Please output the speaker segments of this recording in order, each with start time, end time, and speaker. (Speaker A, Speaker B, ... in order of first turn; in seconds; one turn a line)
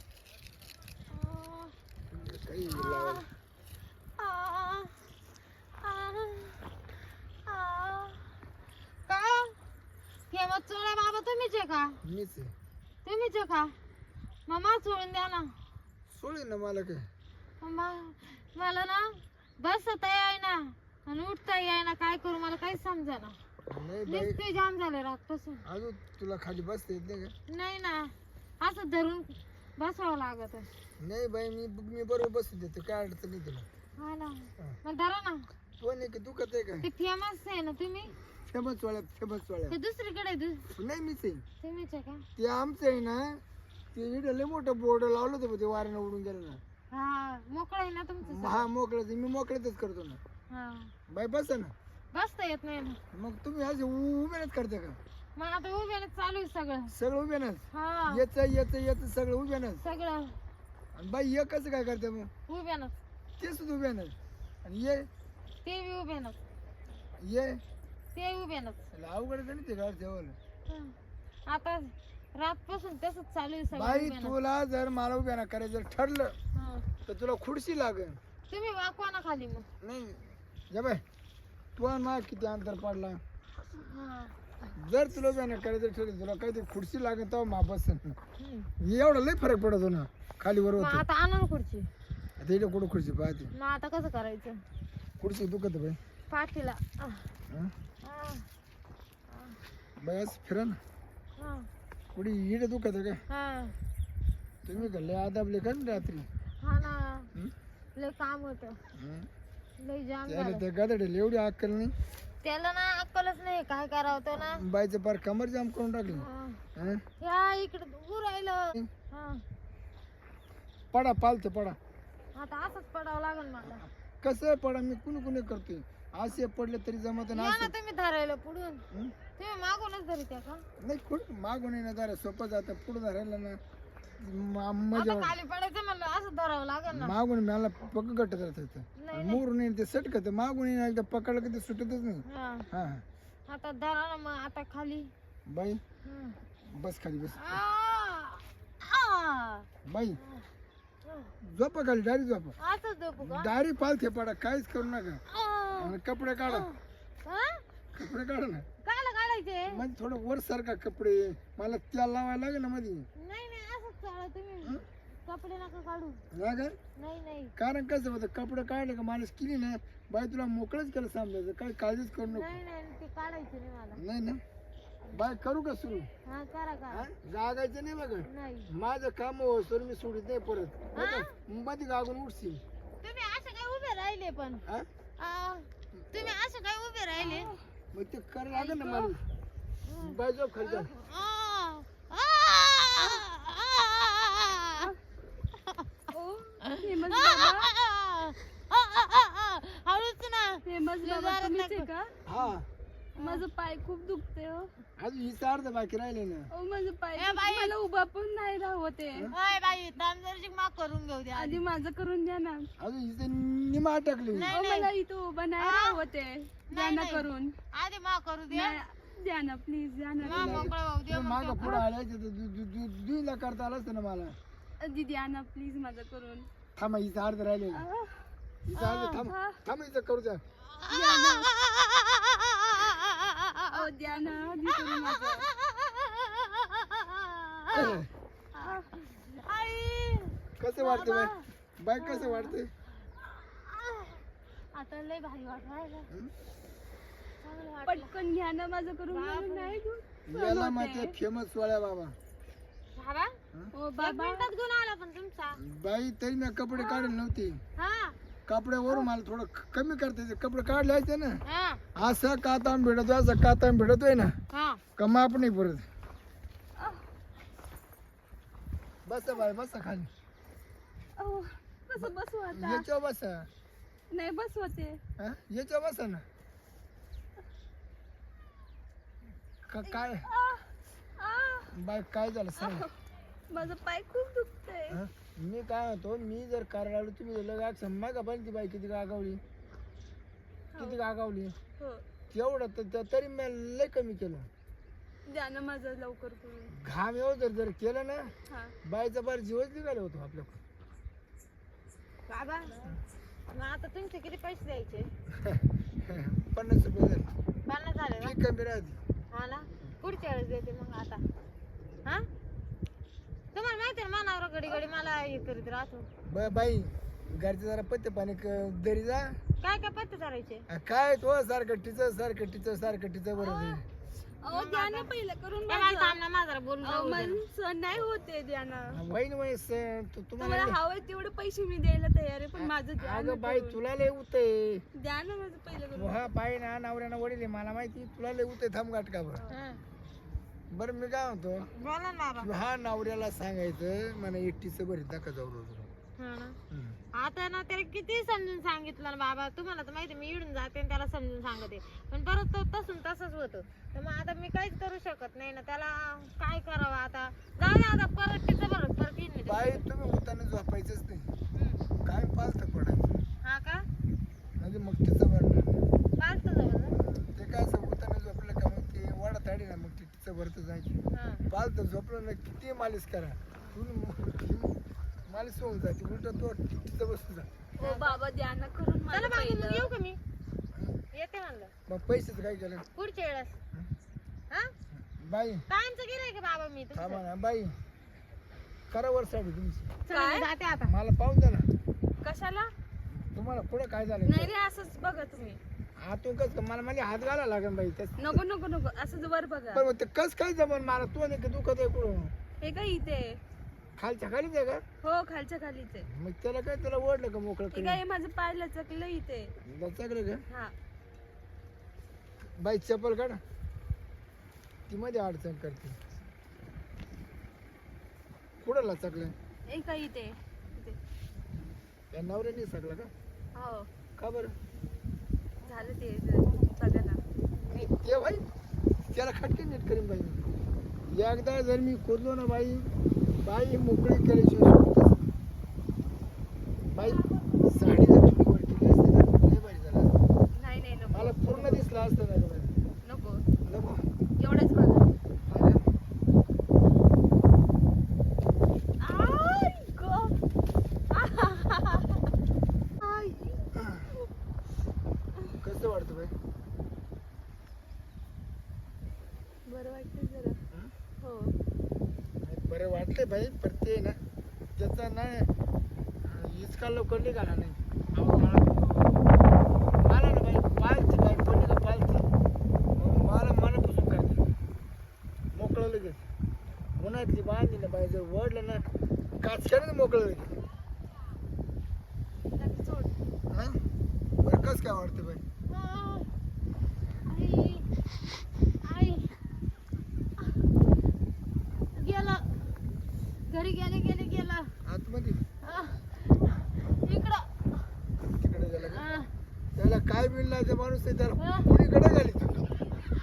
Speaker A: 1.1-1.8
Speaker B: 2.1-3.2
Speaker A: 2.7-3.3
Speaker A: 4.2-5.0
Speaker A: 5.8-6.6
Speaker A: 7.4-8.2
Speaker A: 9.1-9.5
Speaker A: 10.3-12.0
Speaker B: 12.0-12.5
Speaker A: 13.0-13.7
Speaker A: 14.5-15.5
Speaker B: 16.1-17.1
Speaker A: 17.6-23.4
Speaker B: 23.7-24.4
Speaker A: 24.1-25.6
Speaker B: 25.6-27.3
Speaker A: 27.5-30.7
Speaker B: 31.0-33.7
Speaker A: 34.0-35.5
Speaker B: 35.8-36.9
Speaker A: 36.8-38.1
Speaker B: 38.5-39.8
Speaker A: 39.7-40.7
Speaker B: 40.7-41.4
Speaker A: 41.6-42.2
Speaker B: 42.4-43.4
Speaker B: 43.9-46.6
Speaker A: 46.9-48.6
Speaker B: 48.2-50.2
Speaker A: 50.5-50.9
Speaker B: 51.1-51.7
Speaker A: 52.1-53.0
Speaker B: 53.1-55.0
Speaker A: 55.4-56.9
Speaker B: 56.9-59.8
Speaker A: 57.7-58.2
Speaker A: 59.8-60.4
Speaker B: 60.9-62.3
Speaker A: 62.5-62.9
Speaker B: 63.4-65.1
Speaker A: 65.6-66.4
Speaker B: 67.2-67.6
Speaker A: 68.1-68.8
Speaker B: 68.9-70.4
Speaker A: 71.5-74.4
Speaker B: 73.7-76.3
Speaker A: 76.5-76.8
Speaker B: 77.0-78.2
Speaker A: 78.5-79.7
Speaker B: 79.8-81.0
Speaker B: 81.8-83.2
Speaker A: 83.8-84.3
Speaker B: 84.7-88.2
Speaker A: 88.4-88.7
Speaker B: 88.8-91.0
Speaker A: 90.8-91.8
Speaker B: 92.4-93.5
Speaker A: 93.5-94.5
Speaker B: 95.2-96.0
Speaker A: 96.3-97.2
Speaker A: 98.0-98.4
Speaker A: 99.3-99.6
Speaker B: 100.0-100.8
Speaker A: 101.4-101.7
Speaker B: 102.1-103.2
Speaker A: 103.3-103.8
Speaker B: 104.7-106.3
Speaker A: 106.6-107.3
Speaker A: 108.0-108.8
Speaker B: 108.9-109.3
Speaker A: 109.8-110.7
Speaker B: 110.3-111.9
Speaker A: 112.4-114.6
Speaker B: 114.4-117.0
Speaker A: 116.1-116.6
Speaker A: 117.2-118.6
Speaker A: 119.1-119.4
Speaker B: 120.9-121.8
Speaker A: 122.3-123.8
Speaker B: 123.6-127.7
Speaker A: 127.3-128.8
Speaker A: 129.4-130.6
Speaker B: 130.8-133.6
Speaker B: 134.2-135.3
Speaker A: 134.9-137.2
Speaker B: 136.9-143.0
Speaker A: 139.0-139.4
Speaker A: 142.3-142.7
Speaker A: 143.5-145.1
Speaker B: 145.5-145.8
Speaker A: 146.0-146.3
Speaker B: 146.7-147.6
Speaker A: 147.4-149.7
Speaker B: 149.8-150.2
Speaker A: 150.2-150.4
Speaker A: 151.0-151.3
Speaker B: 151.4-152.5
Speaker A: 152.6-153.5
Speaker B: 153.2-155.2
Speaker A: 155.3-157.6
Speaker B: 155.7-156.7
Speaker B: 157.9-158.7
Speaker A: 158.8-159.8
Speaker B: 159.7-163.1
Speaker A: 163.2-166.2
Speaker B: 166.3-166.7
Speaker A: 167.0-167.5
Speaker B: 167.6-172.6
Speaker A: 172.2-174.0
Speaker B: 173.9-174.4
Speaker B: 175.1-176.1
Speaker A: 176.2-177.1
Speaker B: 176.9-182.6
Speaker A: 178.2-178.7
Speaker A: 180.9-181.3
Speaker A: 183.0-184.6
Speaker A: 185.2-187.5
Speaker C: 187.2-187.6
Speaker B: 187.9-189.2
Speaker C: 188.5-189.1
Speaker A: 189.9-190.2
Speaker B: 190.0-190.9
Speaker C: 190.6-190.9
Speaker A: 190.9-194.9
Speaker A: 195.6-195.8
Speaker C: 196.1-197.7
Speaker A: 196.6-201.9
Speaker C: 200.6-202.1
Speaker B: 202.3-202.6
Speaker A: 203.1-203.4
Speaker C: 203.2-204.7
Speaker B: 205.0-206.5
Speaker C: 206.5-209.3
Speaker A: 207.2-207.8
Speaker A: 209.3-211.6
Speaker C: 211.3-212.7
Speaker B: 212.8-214.5
Speaker A: 214.3-214.9
Speaker C: 214.5-217.5
Speaker A: 215.6-216.0
Speaker A: 216.7-218.8
Speaker C: 218.5-220.7
Speaker B: 220.2-224.3
Speaker A: 220.2-221.8
Speaker C: 221.6-221.9
Speaker C: 224.8-226.5
Speaker B: 226.8-227.8
Speaker C: 227.7-229.6
Speaker B: 228.7-230.4
Speaker A: 228.8-229.3
Speaker A: 230.8-237.9
Speaker C: 230.9-231.5
Speaker C: 233.7-235.5
Speaker B: 237.7-238.1
Speaker C: 238.5-238.9
Speaker A: 239.1-241.4
Speaker B: 240.6-242.7
Speaker C: 240.9-241.2
Speaker A: 242.0-242.6
Speaker A: 243.2-244.2
Speaker A: 244.7-246.1
Speaker A: 247.4-248.2
Speaker C: 247.8-251.2
Speaker A: 249.1-249.8
Speaker B: 250.3-252.2
Speaker A: 252.9-253.3
Speaker C: 253.7-254.5
Speaker A: 254.0-255.6
Speaker B: 255.6-257.6
Speaker A: 256.8-257.1
Speaker A: 257.8-258.1
Speaker B: 258.5-261.4
Speaker A: 261.4-261.8
Speaker B: 261.9-264.3
Speaker A: 264.5-264.8
Speaker B: 265.0-265.9
Speaker C: 266.8-267.0
Speaker B: 269.1-270.1
Speaker C: 271.2-272.9
Speaker B: 272.0-273.5
Speaker C: 274.1-275.0
Speaker B: 275.2-276.2
Speaker B: 279.7-280.3
Speaker C: 279.8-281.7
Speaker B: 281.7-282.9
Speaker C: 282.6-282.9
Speaker C: 283.5-285.0
Speaker B: 284.9-289.4
Speaker C: 290.7-291.0
Speaker B: 290.8-291.5
Speaker B: 292.3-294.5
Speaker C: 295.3-296.7
Speaker B: 296.7-298.3
Speaker C: 298.5-298.7
Speaker B: 298.8-300.6
Speaker A: 302.3-302.8
Speaker A: 303.5-305.1
Speaker B: 305.4-307.3
Speaker A: 307.7-308.4
Speaker B: 308.2-309.0
Speaker A: 309.3-311.2
Speaker A: 313.5-316.1
Speaker B: 316.3-319.4
Speaker A: 319.6-320.6
Speaker B: 320.7-323.8
Speaker A: 323.4-323.8
Speaker C: 324.4-326.2
Speaker A: 324.5-325.1
Speaker A: 325.7-327.4
Speaker C: 326.8-329.0
Speaker B: 328.9-330.8
Speaker C: 330.4-333.8
Speaker B: 332.6-334.8
Speaker C: 335.0-336.2
Speaker B: 335.9-339.4
Speaker A: 339.5-339.8
Speaker B: 340.7-341.7
Speaker A: 341.7-342.5
Speaker B: 342.4-345.9
Speaker A: 346.2-346.6
Speaker B: 346.7-347.0
Speaker A: 347.2-359.8
Speaker B: 359.4-361.3
Speaker A: 361.6-361.8
Speaker B: 362.0-363.1
Speaker A: 363.4-363.9
Speaker B: 364.6-365.9
Speaker A: 366.2-367.0
Speaker B: 366.9-370.9
Speaker A: 371.1-371.4
Speaker B: 371.5-374.7
Speaker B: 375.3-377.5
Speaker C: 377.8-379.9
Speaker A: 377.8-378.2
Speaker A: 379.1-380.2
Speaker A: 381.1-381.7
Speaker B: 381.9-382.8
Speaker A: 382.9-383.5
Speaker B: 385.1-385.6
Speaker A: 385.7-387.2
Speaker B: 386.9-387.8
Speaker B: 388.9-389.9
Speaker A: 390.1-390.9
Speaker C: 390.1-390.5
Speaker B: 390.8-391.7
Speaker C: 392.2-392.7
Speaker B: 393.1-394.5
Speaker C: 394.2-395.6
Speaker B: 396.0-398.4
Speaker C: 398.2-399.9
Speaker B: 399.7-402.3
Speaker C: 402.6-403.4
Speaker B: 404.0-404.8
Speaker C: 405.0-406.1
Speaker B: 406.1-408.0
Speaker C: 407.7-409.5
Speaker B: 409.6-410.4
Speaker B: 412.6-413.4
Speaker B: 414.9-416.0
Speaker B: 418.6-419.3
Speaker C: 419.7-421.0
Speaker B: 422.1-423.1
Speaker C: 423.6-423.9
Speaker B: 424.2-424.5
Speaker C: 425.6-427.2
Speaker B: 427.7-428.4
Speaker B: 429.1-430.4
Speaker B: 431.1-435.3
Speaker B: 436.9-440.1
Speaker C: 440.5-441.9
Speaker B: 441.1-442.8
Speaker C: 443.0-443.4
Speaker B: 443.6-444.0
Speaker C: 444.4-445.1
Speaker B: 445.5-445.8
Speaker C: 449.0-450.4
Speaker C: 451.1-452.2
Speaker C: 453.0-454.3
Speaker B: 453.7-454.1
Speaker B: 455.6-456.3
Speaker C: 459.7-460.6
Speaker C: 461.2-461.5
Speaker B: 462.4-464.2
Speaker B: 464.8-465.5
Speaker B: 466.2-469.2
Speaker C: 468.2-468.5
Speaker B: 470.0-472.3
Speaker B: 472.9-474.4
Speaker B: 475.5-476.2
Speaker B: 477.0-478.8
Speaker B: 479.4-480.5
Speaker C: 482.5-483.1
Speaker B: 483.5-483.8
Speaker B: 484.4-485.4
Speaker A: 485.7-486.3
Speaker A: 487.2-487.9
Speaker A: 488.8-489.3
Speaker A: 491.9-492.6
Speaker A: 493.5-494.7
Speaker B: 494.9-495.4
Speaker A: 495.6-497.5
Speaker B: 498.3-499.0
Speaker A: 498.8-499.3
Speaker B: 499.8-502.7
Speaker A: 501.4-501.7